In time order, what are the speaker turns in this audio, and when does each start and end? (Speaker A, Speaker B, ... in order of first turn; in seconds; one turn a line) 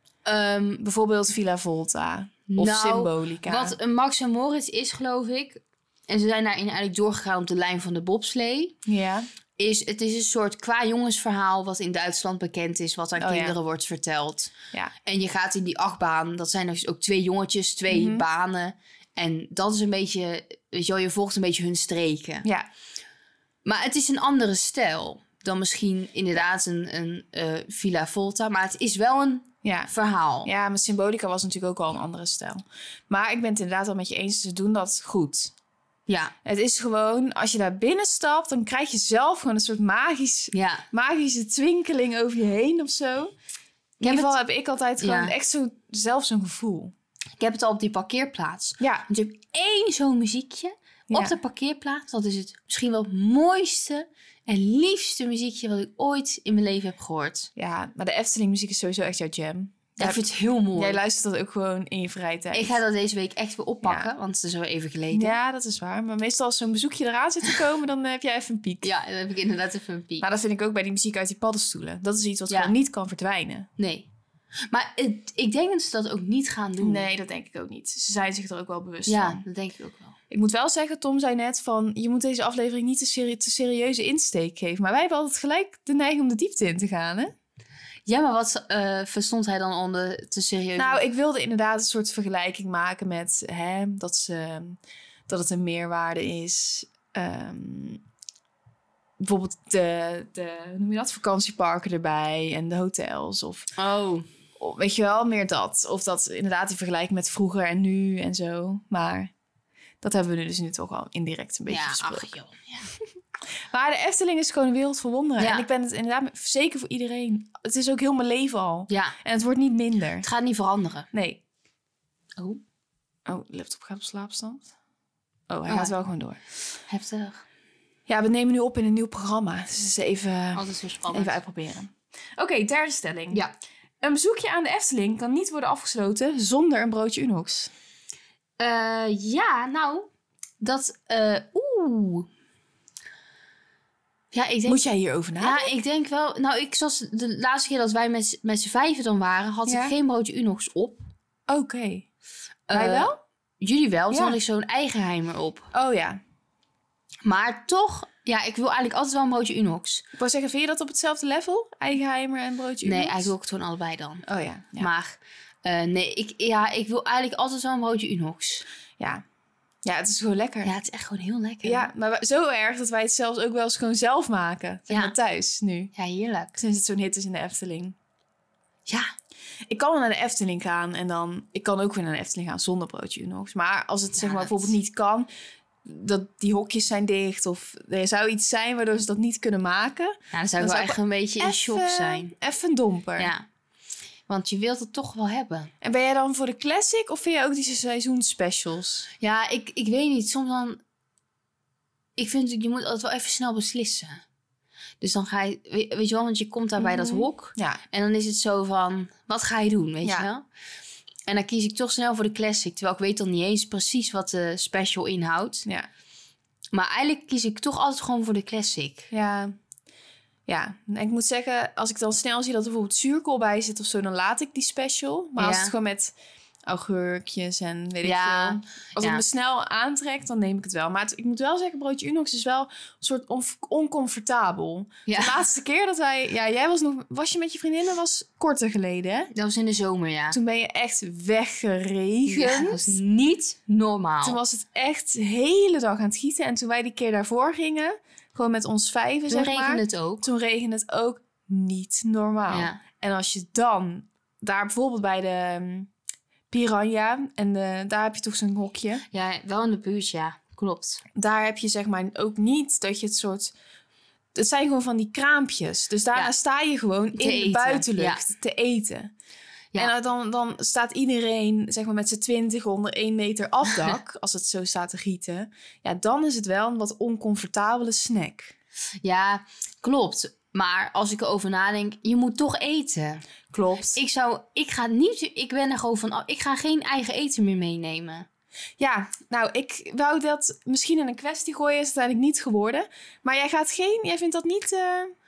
Speaker A: 0.2-0.8
Speaker B: 0.8-3.8
Speaker A: 2.5-8.8
Speaker B: 8.9-9.3
Speaker A: 9.6-14.5
Speaker B: 13.2-13.6
Speaker A: 15.1-22.5
Speaker B: 17.9-18.2
Speaker A: 23.6-30.5
Speaker B: 29.6-29.9
Speaker B: 30.4-35.5
Speaker A: 36.1-36.3
Speaker B: 36.4-43.3
Speaker A: 40.5-40.9
Speaker A: 44.0-44.4
Speaker B: 44.0-46.9
Speaker A: 45.0-45.3
Speaker A: 47.4-57.5
Speaker B: 48.8-49.1
Speaker B: 51.1-51.4
Speaker B: 57.6-60.2
Speaker A: 60.0-61.0
Speaker B: 60.7-62.8
Speaker A: 62.5-65.4
Speaker B: 63.8-64.1
Speaker B: 65.1-68.9
Speaker A: 68.8-70.2
Speaker B: 70.2-73.7
Speaker A: 73.8-74.1
Speaker A: 74.7-77.1
Speaker B: 76.8-79.4
Speaker A: 79.1-80.1
Speaker B: 80.3-87.3
Speaker A: 88.1-91.0
Speaker B: 90.8-98.0
Speaker B: 99.2-103.7
Speaker A: 103.8-104.3
Speaker B: 104.6-109.3
Speaker B: 110.0-112.3
Speaker A: 111.7-112.9
Speaker B: 113.7-120.2
Speaker A: 115.4-115.7
Speaker A: 118.9-119.2
Speaker A: 120.2-121.1
Speaker B: 121.1-121.4
Speaker B: 123.2-124.7
Speaker B: 125.5-126.4
Speaker A: 125.7-125.9
Speaker A: 126.9-127.4
Speaker B: 128.1-133.4
Speaker A: 130.6-131.4
Speaker B: 134.0-137.7
Speaker A: 138.6-140.1
Speaker A: 140.6-142.3
Speaker A: 144.3-144.9
Speaker B: 144.7-145.7
Speaker A: 145.4-151.0
Speaker B: 149.7-149.9
Speaker B: 151.5-152.1
Speaker A: 152.7-155.7
Speaker B: 152.7-153.1
Speaker B: 154.1-154.4
Speaker B: 155.7-156.2
Speaker A: 157.2-160.1
Speaker B: 160.2-163.3
Speaker A: 162.8-164.2
Speaker B: 164.2-164.9
Speaker A: 164.8-168.6
Speaker B: 169.8-170.7
Speaker A: 170.6-171.9
Speaker B: 171.6-175.9
Speaker A: 174.9-175.1
Speaker A: 175.9-176.6
Speaker B: 176.6-177.9
Speaker B: 179.7-185.3
Speaker A: 184.2-184.7
Speaker B: 185.8-193.3
Speaker A: 190.3-192.3
Speaker A: 193.2-193.4
Speaker A: 194.3-195.7
Speaker B: 195.8-199.1
Speaker A: 199.2-200.8
Speaker A: 202.2-204.2
Speaker A: 205.0-210.4
Speaker B: 206.8-207.8
Speaker A: 211.3-215.7
Speaker A: 216.7-219.1
Speaker B: 219.1-219.6
Speaker B: 220.5-226.1
Speaker A: 225.4-225.7
Speaker B: 226.7-239.3
Speaker A: 228.0-229.2
Speaker A: 235.1-235.4
Speaker A: 239.3-240.4
Speaker B: 240.3-243.0
Speaker A: 242.2-244.4
Speaker B: 244.2-255.9
Speaker A: 249.3-250.2
Speaker A: 252.5-252.8
Speaker B: 256.5-259.1
Speaker A: 259.1-261.0
Speaker B: 261.1-263.5
Speaker B: 264.4-269.1
Speaker A: 267.2-268.2
Speaker B: 269.8-278.5
Speaker A: 279.0-283.2
Speaker B: 283.5-284.0
Speaker A: 283.9-288.3
Speaker B: 288.8-295.1